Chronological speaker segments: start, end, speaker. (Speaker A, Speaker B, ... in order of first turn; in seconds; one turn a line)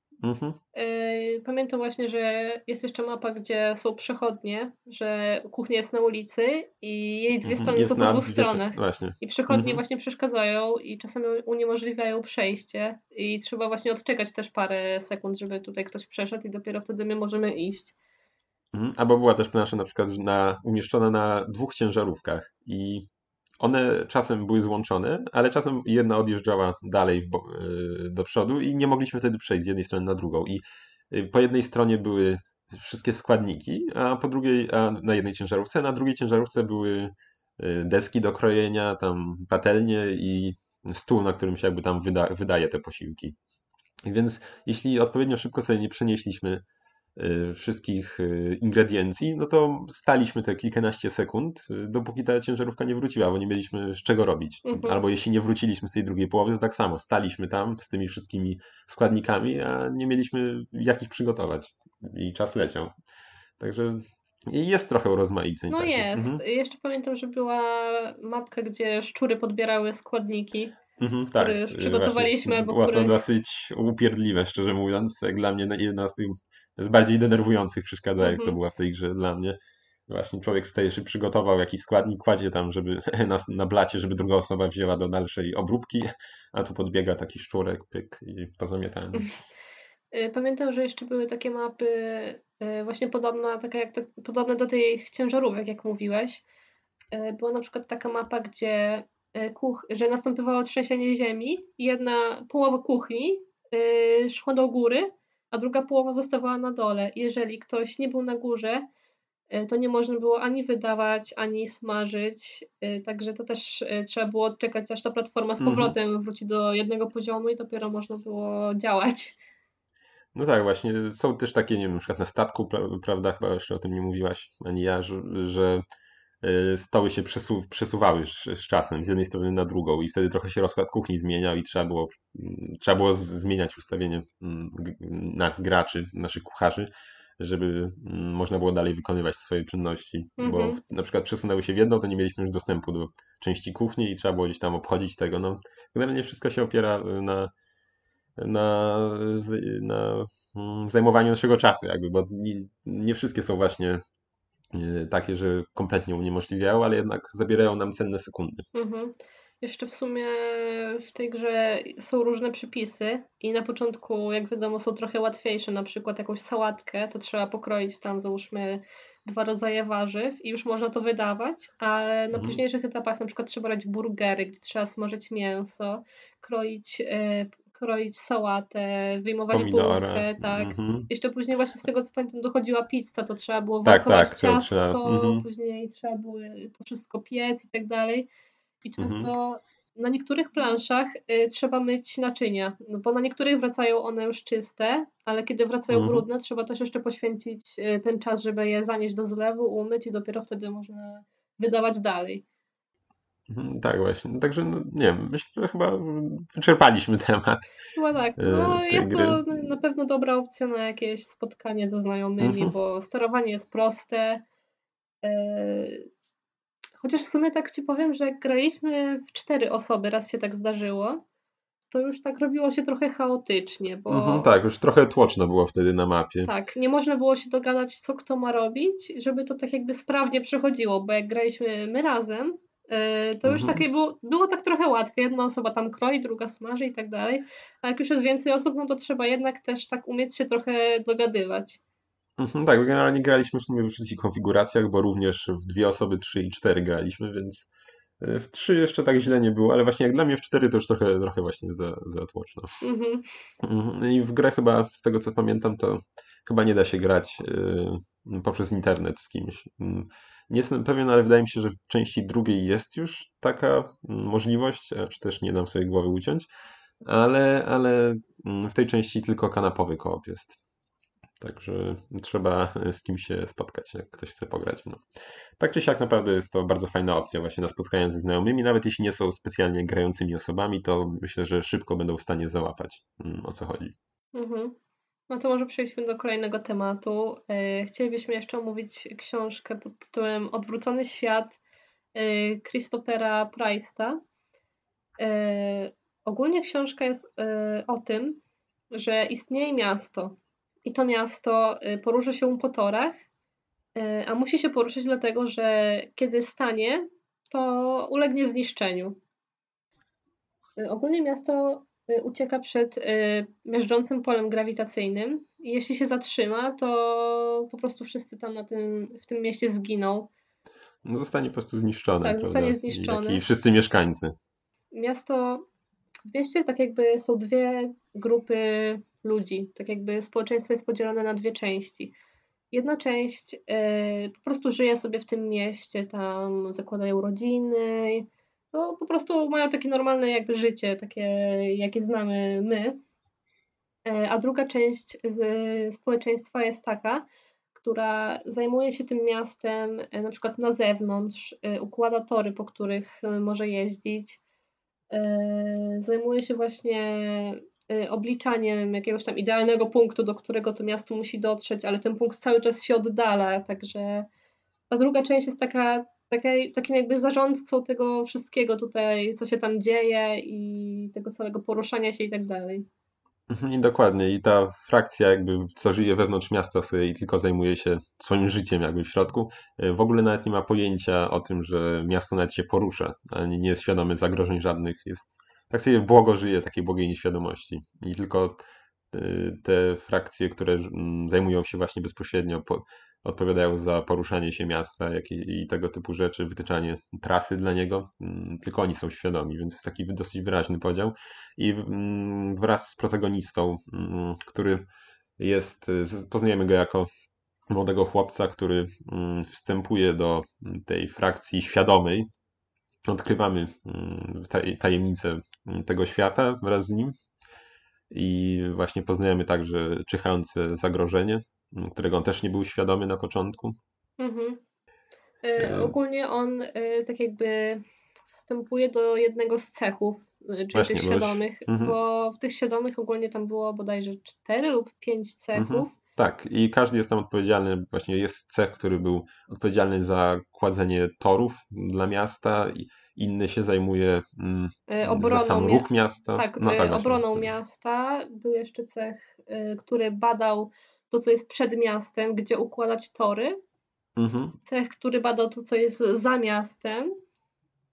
Speaker A: 0.2-0.6
Speaker B: 0.7-17.9
Speaker A: 7.4-9.8
Speaker A: 18.7-23.1
Speaker A: 23.6-43.4
Speaker A: 44.0-46.6
Speaker A: 47.1-62.9
Speaker B: 54.6-55.0
Speaker A: 63.6-66.4
Speaker B: 65.7-70.8
Speaker A: 71.0-79.6
Speaker B: 71.4-73.2
Speaker B: 78.2-78.6
Speaker A: 80.1-89.3
Speaker B: 90.1-96.4
Speaker B: 97.1-108.9
Speaker B: 109.5-119.4
Speaker A: 115.6-115.9
Speaker A: 120.3-125.8
Speaker A: 126.4-147.5
Speaker B: 140.4-140.8
Speaker A: 148.4-154.0
Speaker A: 154.7-158.7
Speaker B: 158.7-188.3
Speaker A: 172.3-172.6
Speaker A: 179.5-181.1
Speaker A: 183.8-185.4
Speaker B: 188.8-202.4
Speaker A: 189.0-189.3
Speaker A: 195.9-196.2
Speaker A: 203.5-207.8
Speaker B: 207.9-214.4
Speaker A: 208.4-209.7
Speaker A: 212.4-212.7
Speaker B: 215.2-216.1
Speaker B: 217.0-221.2
Speaker B: 221.9-224.5
Speaker A: 224.1-226.5
Speaker B: 226.4-241.8
Speaker A: 233.4-233.8
Speaker A: 242.4-252.8
Speaker B: 252.8-253.2
Speaker A: 253.6-266.5
Speaker A: 267.0-270.6
Speaker A: 271.4-275.0
Speaker A: 275.6-283.9
Speaker B: 284.3-284.8
Speaker B: 285.3-291.6
Speaker B: 292.1-294.2
Speaker B: 295.2-298.4
Speaker B: 298.9-303.1
Speaker B: 303.9-309.2
Speaker B: 310.8-320.3
Speaker A: 321.0-324.3
Speaker B: 322.2-323.4
Speaker B: 324.9-325.6
Speaker B: 326.3-332.1
Speaker B: 332.7-343.0
Speaker B: 344.1-354.4
Speaker B: 355.1-364.3
Speaker B: 364.9-372.9
Speaker A: 373.5-404.9
Speaker A: 405.4-407.1
Speaker A: 407.7-412.3
Speaker A: 413.1-417.1
Speaker A: 418.1-423.8
Speaker B: 424.2-424.6
Speaker B: 425.4-435.9
Speaker A: 425.6-425.9
Speaker A: 430.7-432.0
Speaker A: 435.5-447.5
Speaker B: 444.9-453.6
Speaker A: 454.2-454.6
Speaker B: 454.6-457.1